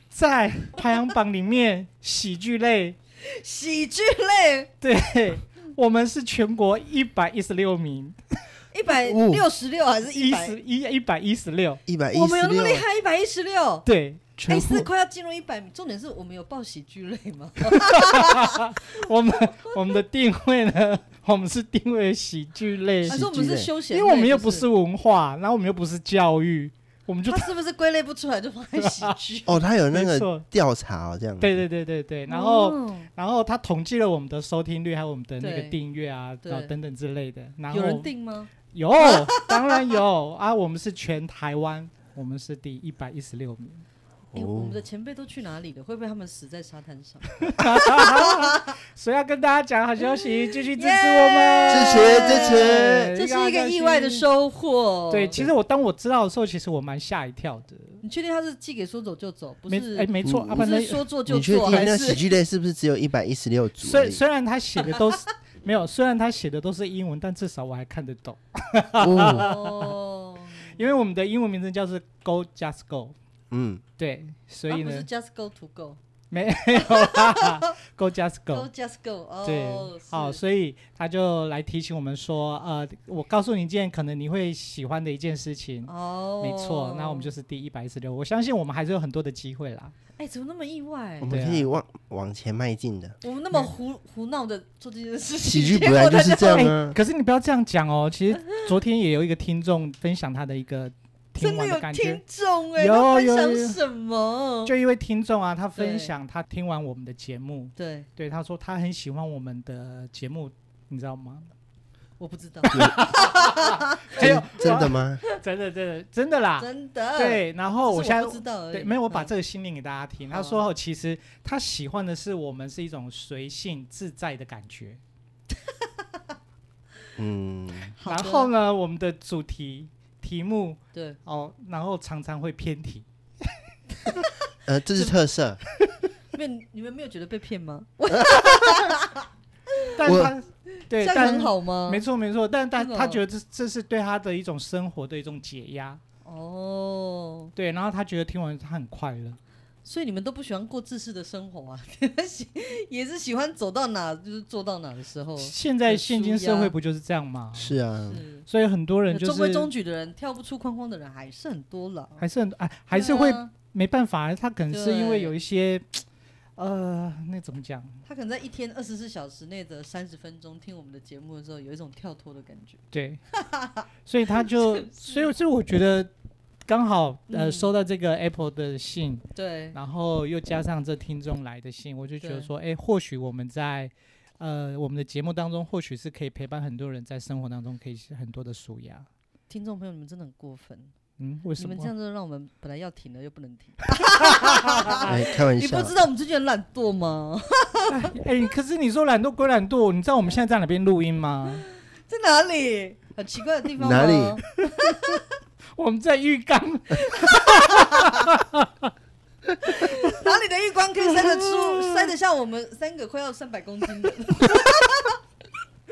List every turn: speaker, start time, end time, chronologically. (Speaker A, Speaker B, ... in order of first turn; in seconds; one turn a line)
Speaker A: 0.1-2.9
Speaker B: 3.2-4.7
Speaker A: 4.8-8.2
Speaker B: 8.7-10.6
Speaker C: 9.0-9.4
Speaker A: 10.1-11.8
Speaker C: 11.9-12.8
Speaker B: 12.1-13.9
Speaker A: 13.8-14.3
Speaker C: 14.4-14.9
Speaker B: 14.5-18.6
Speaker A: 17.6-23.2
Speaker C: 23.0-23.7
Speaker B: 23.1-24.6
Speaker A: 23.9-27.5
Speaker B: 27.2-29.6
Speaker A: 28.8-29.1
Speaker C: 29.5-31.6
Speaker A: 29.9-30.4
Speaker A: 31.4-38.1
Speaker B: 32.3-33.1
Speaker B: 35.4-35.8
Speaker B: 36.4-36.7
Speaker B: 37.7-39.6
Speaker A: 38.7-43.8
Speaker C: 44.3-44.8
Speaker B: 44.3-48.7
Speaker A: 47.5-54.2
Speaker B: 50.5-55.5
Speaker C: 51.7-53.1
Speaker A: 55.1-58.0
Speaker B: 58.0-62.2
Speaker A: 59.7-62.2
Speaker C: 60.2-60.6
Speaker C: 61.3-64.2
Speaker A: 63.8-69.9
Speaker C: 69.0-69.5
Speaker B: 69.2-70.8
Speaker A: 70.7-73.1
Speaker C: 73.5-73.8
Speaker A: 74.0-75.0
Speaker B: 74.7-76.0
Speaker A: 76.3-78.7
Speaker B: 76.9-77.6
Speaker B: 78.5-80.4
Speaker A: 79.4-89.9
Speaker B: 85.8-87.3
Speaker B: 90.2-91.4
Speaker C: 91.2-93.2
Speaker A: 91.3-91.7
Speaker B: 93.2-96.7
Speaker C: 95.4-97.0
Speaker A: 96.5-102.2
Speaker B: 101.4-104.7
Speaker A: 102.7-103.8
Speaker A: 104.7-111.5
Speaker B: 105.8-106.1
Speaker B: 107.8-108.1
Speaker B: 112.2-114.2
Speaker A: 112.7-125.0
Speaker C: 112.7-113.0
Speaker C: 114.2-115.2
Speaker B: 116.6-119.3
Speaker B: 120.3-120.6
Speaker B: 125.8-126.2
Speaker C: 127.2-127.9
Speaker B: 128.0-128.5
Speaker A: 128.1-133.1
Speaker B: 130.9-131.2
Speaker C: 134.7-135.6
Speaker B: 136.3-139.3
Speaker C: 138.2-138.5
Speaker A: 139.9-146.0
Speaker C: 140.0-140.3
Speaker B: 140.9-142.0
Speaker B: 142.8-143.2
Speaker B: 146.2-147.5
Speaker A: 147.6-149.4
Speaker B: 149.8-156.7
Speaker A: 155.4-157.8
Speaker C: 157.5-158.2
Speaker B: 158.1-158.5
Speaker A: 158.5-159.7
Speaker B: 159.1-162.2
Speaker A: 162.2-166.0
Speaker B: 162.9-163.5
Speaker B: 164.7-165.3
Speaker A: 166.6-168.0
Speaker B: 168.0-172.8
Speaker A: 172.9-173.2
Speaker B: 173.3-173.8
Speaker A: 174.0-176.1
Speaker B: 174.4-175.3
Speaker A: 176.7-189.1
Speaker B: 177.3-177.7
Speaker B: 179.3-179.8
Speaker B: 182.2-182.5
Speaker B: 189.5-190.9
Speaker A: 191.2-191.9
Speaker B: 191.6-198.1
Speaker A: 194.3-195.1
Speaker C: 195.1-195.9
Speaker A: 197.9-201.6
Speaker B: 201.5-205.2
Speaker C: 203.8-204.4
Speaker A: 204.6-205.2
Speaker A: 205.8-208.9
Speaker B: 207.1-208.3
Speaker B: 209.6-215.2
Speaker A: 211.1-212.1